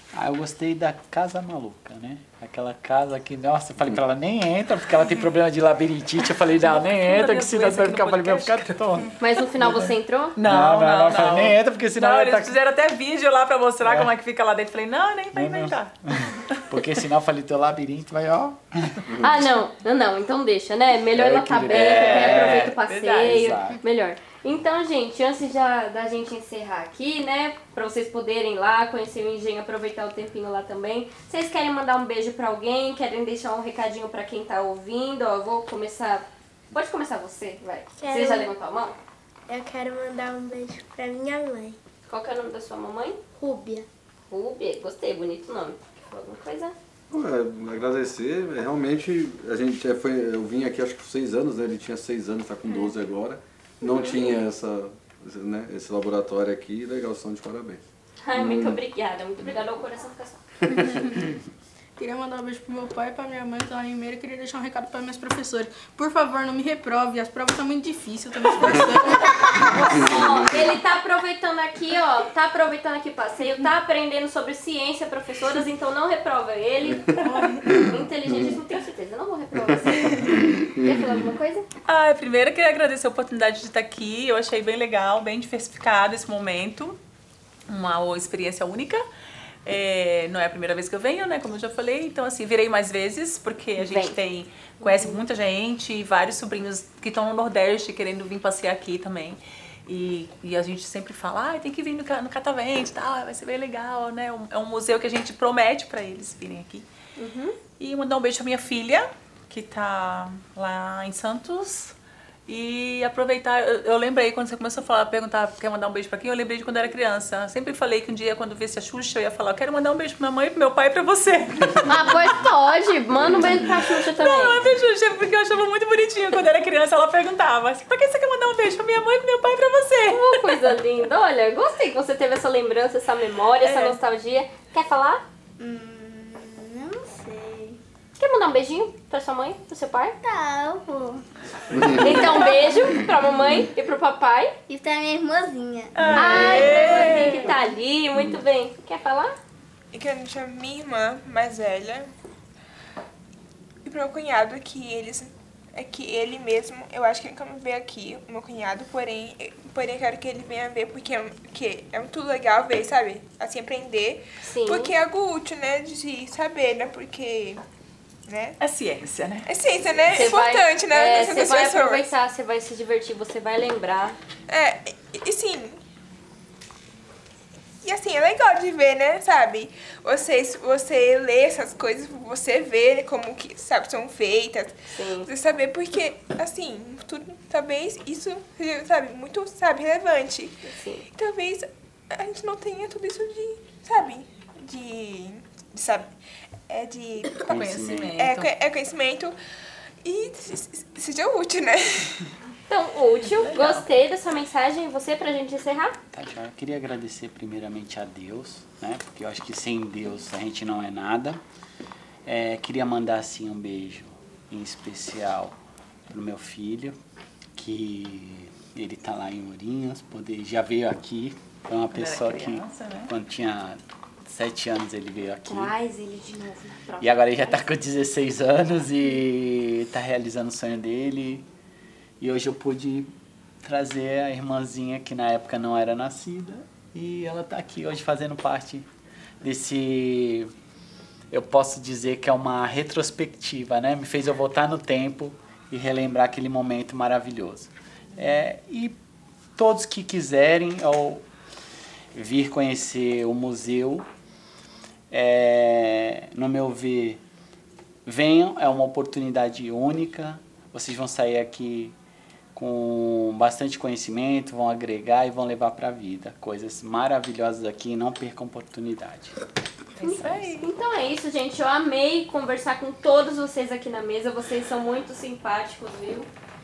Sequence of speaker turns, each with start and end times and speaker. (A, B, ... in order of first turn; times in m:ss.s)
0:00.1-0:12.6 A
0:06.6-0:09.0 B
0:09.2-0:10.4 C
0:10.4-0:16.8 B
0:13.8-0:14.1 A
0:15.3-0:19.0 A
0:19.1-0:19.3 D
0:19.2-0:39.0 C
0:21.1-0:23.8 A
0:21.7-0:23.6 B
0:38.0-0:38.5 E
0:39.5-0:41.8 E
0:42.1-0:43.2 C
0:43.4-0:43.9 E
0:44.3-0:46.8 C
0:47.1-0:57.8 D
0:53.9-0:54.2 E
0:58.2-1:00.8 C
0:58.3-0:58.8 D
1:00.6-1:01.4 D
1:02.0-1:09.7 F
1:09.6-1:21.7 C
1:09.8-1:10.7 D
1:17.1-1:18.6 D
1:17.2-1:17.8 F
1:19.6-1:21.3 D
1:21.9-1:27.0 B
1:27.7-1:29.0 B
1:29.6-1:46.9 B
1:33.8-1:34.2 C
1:34.8-1:35.2 C
1:47.2-1:47.6 C
1:47.8-1:52.0 B
1:52.5-2:02.1 B
2:01.9-2:04.6 C
2:03.2-2:03.9 D
2:04.0-2:10.8 B
2:10.1-2:15.2 C
2:13.6-2:14.0 B
2:15.6-2:17.8 G
2:18.2-2:20.2 C
2:20.2-2:21.2 G
2:21.7-2:23.6 D
2:21.9-2:24.6 C
2:24.7-2:27.5 G
2:26.0-2:27.6 B
2:26.1-2:29.4 C
2:28.2-2:28.4 D
2:29.9-2:32.1 H
2:33.8-2:47.6 H
2:44.4-2:45.0 C
2:48.3-2:48.6 H
2:48.6-2:49.5 B
2:49.5-2:52.1 H
2:50.1-2:54.2 C
2:54.5-2:55.8 H
2:57.8-3:16.2 H
3:04.9-3:05.3 C
3:10.7-3:11.1 C
3:16.7-3:17.6 H
3:17.4-3:18.2 A
3:17.4-3:18.5 B
3:18.2-3:19.4 H
3:20.0-3:22.3 H
3:22.7-3:26.0 C
3:23.3-3:23.9 B
3:26.1-3:31.4 A
3:32.2-3:35.6 A
3:36.1-3:37.0 A
3:37.6-3:45.7 A
3:41.9-3:43.1 B
3:45.5-3:47.6 C
3:47.0-3:51.5 A
3:52.2-3:58.9 A
3:59.4-4:00.5 A
4:01.3-4:09.0 A
4:09.6-4:11.2 A
4:12.1-4:14.1 A
4:15.1-4:17.2 A
4:18.0-4:22.0 A
4:22.5-4:29.4 A
4:30.0-4:30.7 B
4:30.0-4:36.3 C